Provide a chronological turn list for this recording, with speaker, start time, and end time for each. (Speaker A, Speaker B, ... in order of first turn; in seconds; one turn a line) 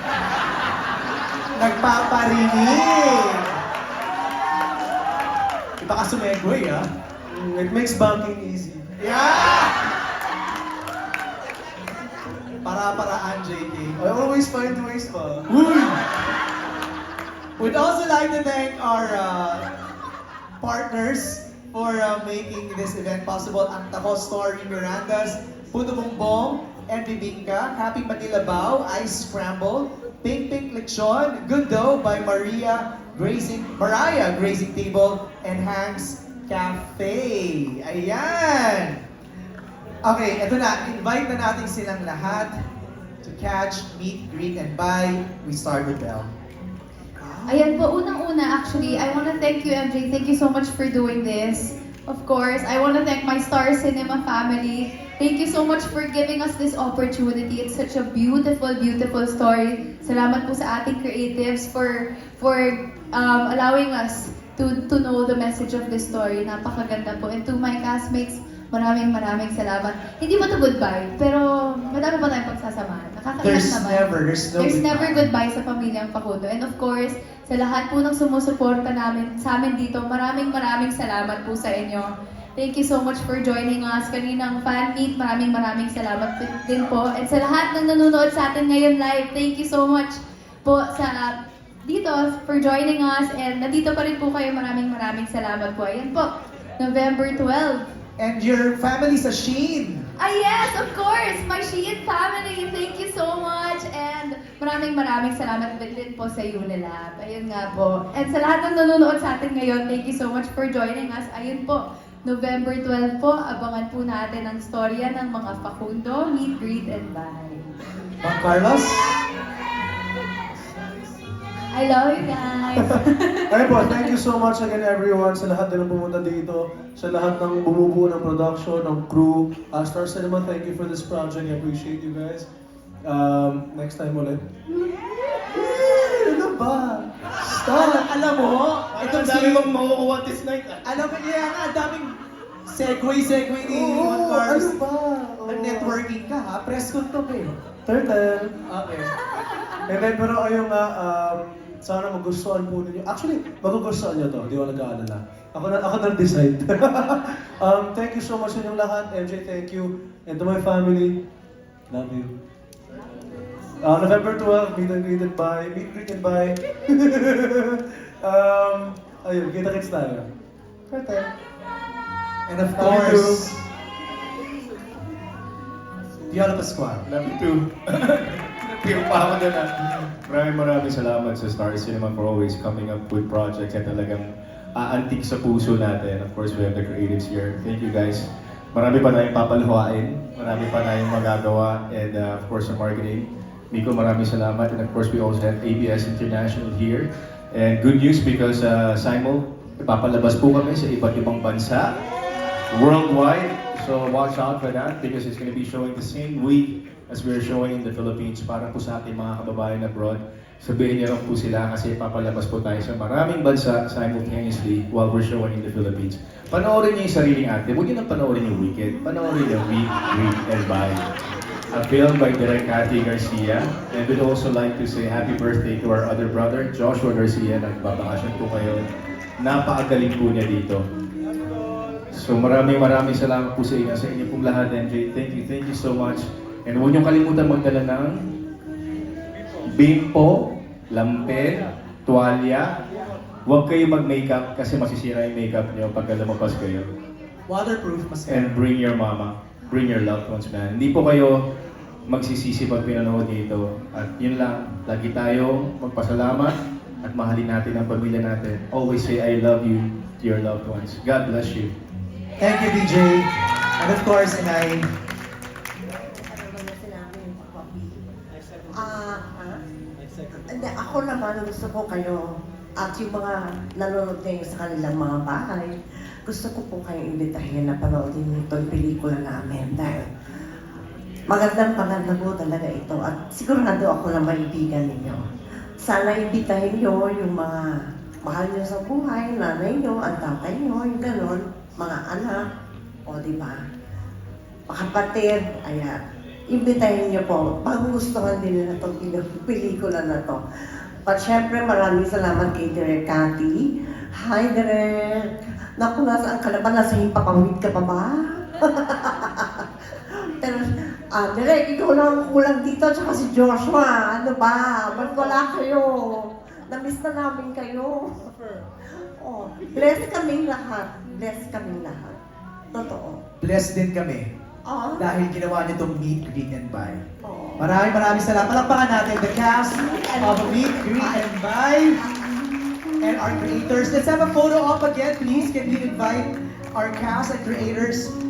Speaker A: 1.5-3.5
Speaker A: 5.8-6.8
Speaker B: 7.3-8.9
Speaker A: 9.0-9.8
Speaker A: 12.6-14.0
Speaker B: 14.0-15.5
Speaker A: 15.5-16.0
Speaker A: 17.6-19.6
Speaker A: 20.6-39.0
Speaker A: 40.0-42.6
Speaker A: 43.2-46.3
Speaker A: 47.2-47.8
Speaker C: 47.5-97.9
Speaker A: 73.4-75.3
Speaker A: 98.2-100.1
Speaker C: 100.2-117.7
Speaker A: 118.2-119.2
Speaker C: 121.7-124.2
Speaker B: 122.8-132.5
Speaker B: 133.0-138.1
Speaker A: 137.6-139.7
Speaker D: 138.9-140.9
Speaker A: 140.8-144.8
Speaker B: 143.6-146.0
Speaker A: 145.4-147.5
Speaker B: 147.8-148.6
Speaker A: 148.7-149.1
Speaker B: 149.8-161.2
Speaker B: 161.9-162.3
Speaker B: 163.8-170.3
Speaker A: 172.5-173.6
Speaker B: 172.8-173.5
Speaker A: 176.3-177.1
Speaker D: 177.0-201.9
Speaker D: 202.7-221.0
Speaker D: 221.7-228.9
Speaker D: 229.4-230.8
Speaker D: 232.1-238.2
Speaker D: 239.6-242.8
Speaker D: 243.4-246.9
Speaker A: 247.5-248.6
Speaker D: 248.3-251.4
Speaker D: 252.1-261.7
Speaker A: 262.4-264.9
Speaker E: 265.8-268.0
Speaker E: 268.7-269.6
Speaker E: 270.3-275.7
Speaker E: 276.2-280.1
Speaker E: 281.3-285.2
Speaker E: 285.8-292.4
Speaker E: 293.1-293.6
Speaker E: 294.7-300.4
Speaker E: 301.0-318.3
Speaker E: 318.9-322.2
Speaker E: 322.7-323.2
Speaker A: 323.4-324.3
Speaker E: 324.6-325.0
Speaker A: 325.0-327.0
Speaker E: 327.2-327.7
Speaker A: 327.6-332.0
Speaker E: 329.8-331.3
Speaker A: 333.0-338.1